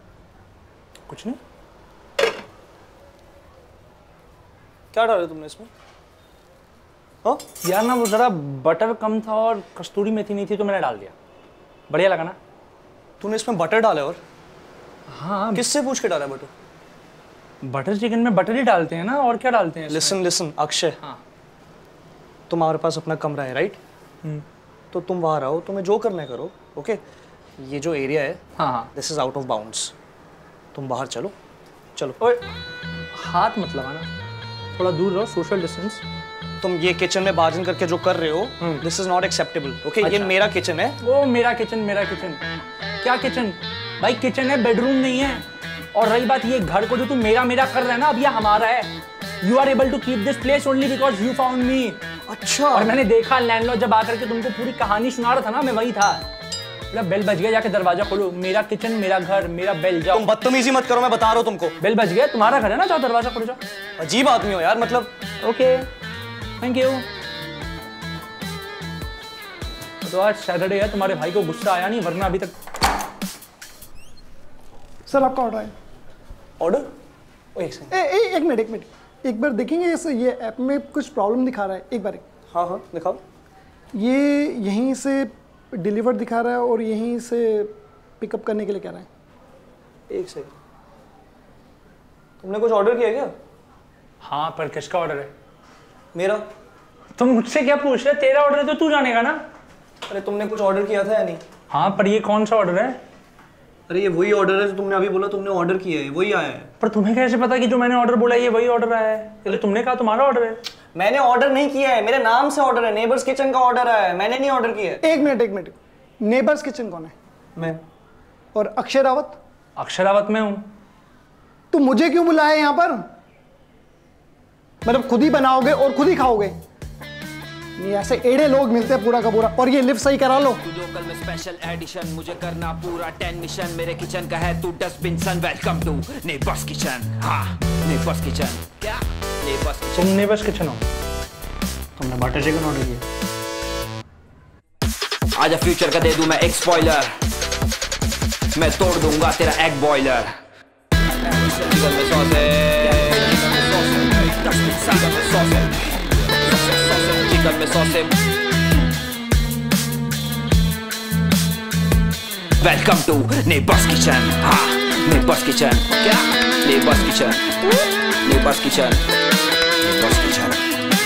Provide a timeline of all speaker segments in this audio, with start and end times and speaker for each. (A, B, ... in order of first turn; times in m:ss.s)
0:01.1-0:01.4 A
0:04.9-0:05.7 B
0:07.6-0:11.1 A
0:11.9-0:12.4 A
0:13.2-0:14.2 B
0:15.1-0:15.7 A
0:15.5-0:16.5 B
0:17.6-0:20.2 A
0:19.9-0:21.0 B
0:22.5-0:23.8 B
0:24.9-0:27.0 B
0:27.6-0:28.4 B
0:28.6-0:28.9 A
0:29.0-0:29.9 B
0:30.7-0:31.4 B
0:32.2-0:32.5 A
0:33.1-0:34.1 A
0:34.8-0:36.0 A
0:36.6-0:41.0 B
0:40.0-0:40.4 A
0:41.0-0:42.4 A
0:43.0-0:45.4 A
0:45.9-0:48.9 A
0:49.4-0:52.0 A
0:52.3-0:52.9 B
0:52.7-0:56.2 A
0:56.9-1:00.3 A
1:00.1-1:01.8 B
1:01.8-1:03.6 A
1:04.0-1:05.1 B
1:05.4-1:05.9 A
1:06.6-1:07.0 A
1:10.0-1:12.5 A
1:15.1-1:15.7 C
1:16.6-1:16.9 B
1:17.6-1:17.9 B
1:17.9-1:22.2 C
1:22.5-1:23.2 B
1:23.9-1:29.1 C
1:30.1-1:30.5 B
1:32.4-1:33.3 B
1:34.2-1:35.3 A
1:36.1-1:36.5 B
1:37.2-1:39.4 A
1:40.1-1:41.4 B
1:41.7-1:43.0 A
1:43.9-1:46.7 B
1:46.8-1:50.6 A
1:51.0-1:55.0 B
1:55.0-1:57.1 C
1:57.6-1:57.8 B
1:58.5-1:59.4 C
1:59.8-2:00.6 A
2:01.7-2:03.0 C
2:04.8-2:06.6 C
2:07.8-2:10.7 C
2:10.7-2:20.1 D
2:20.0-2:20.8 A
2:22.0-2:22.8 D
2:25.4-2:27.1 D
2:28.6-2:30.3 D
2:31.4-2:35.8 D
2:36.4-2:38.1 D
2:42.6-2:47.4 D
2:48.2-2:49.0 D
2:49.8-2:50.6 D